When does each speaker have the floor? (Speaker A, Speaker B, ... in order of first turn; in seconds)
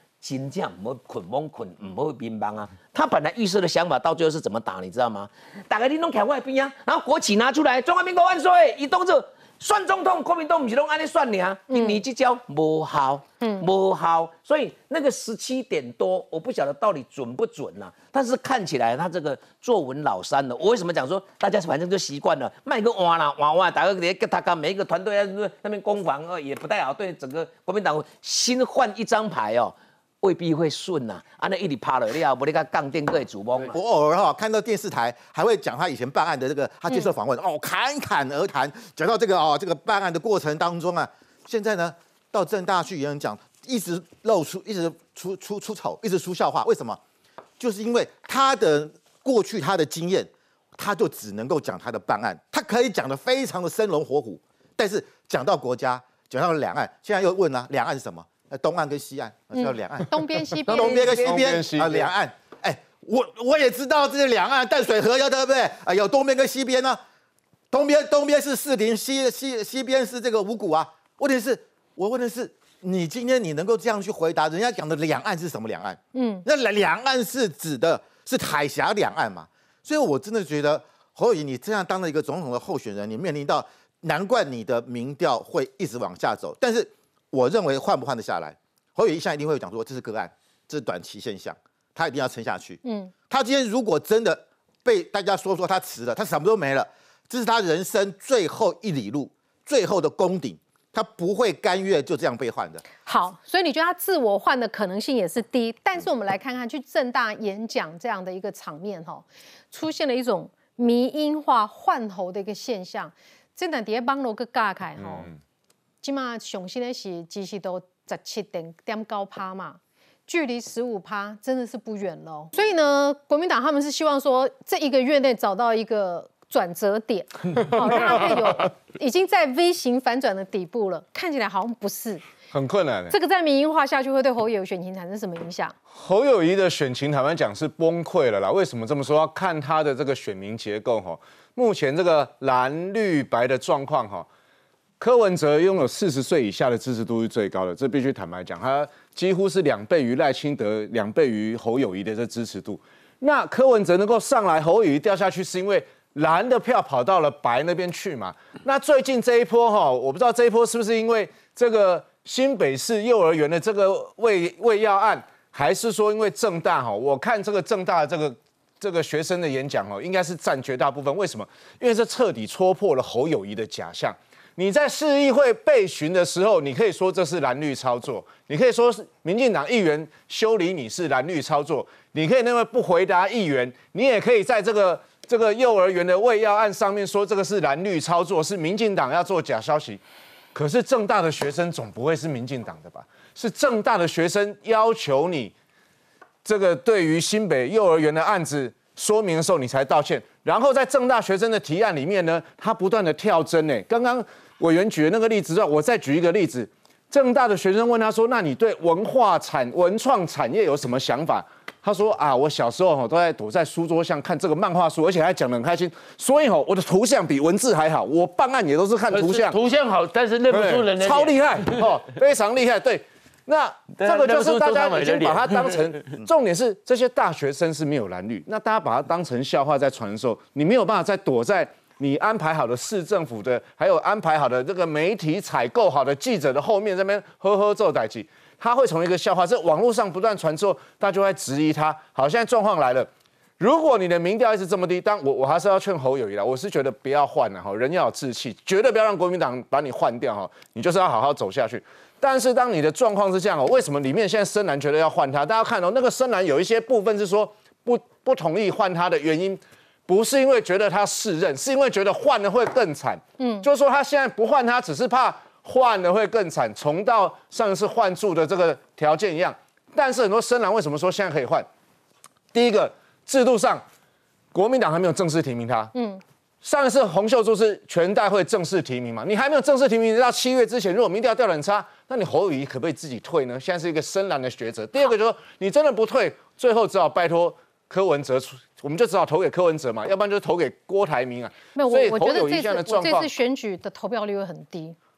Speaker A: 0.2-33.7
Speaker B: 11.7-12.0, 13.4-13.7, 59.5-61.2, 76.1-76.4, 92.8-93.1, 103.0-115.3, 116.0-132.2, 133.1-135.8, 263.4-263.7, 275.9-276.2, 291.8-295.0
Speaker C: 33.7-47.0, 47.6-60.1, 60.7-67.0, 67.7-102.8
Speaker D: 132.5-133.2, 135.9-144.3, 145.0-190.0, 190.5-195.5, 196.4-219.6, 220.5-271.7, 272.5-273.8, 274.5-275.9, 276.6-293.3
Speaker E: 219.1-221.9, 223.9-226.1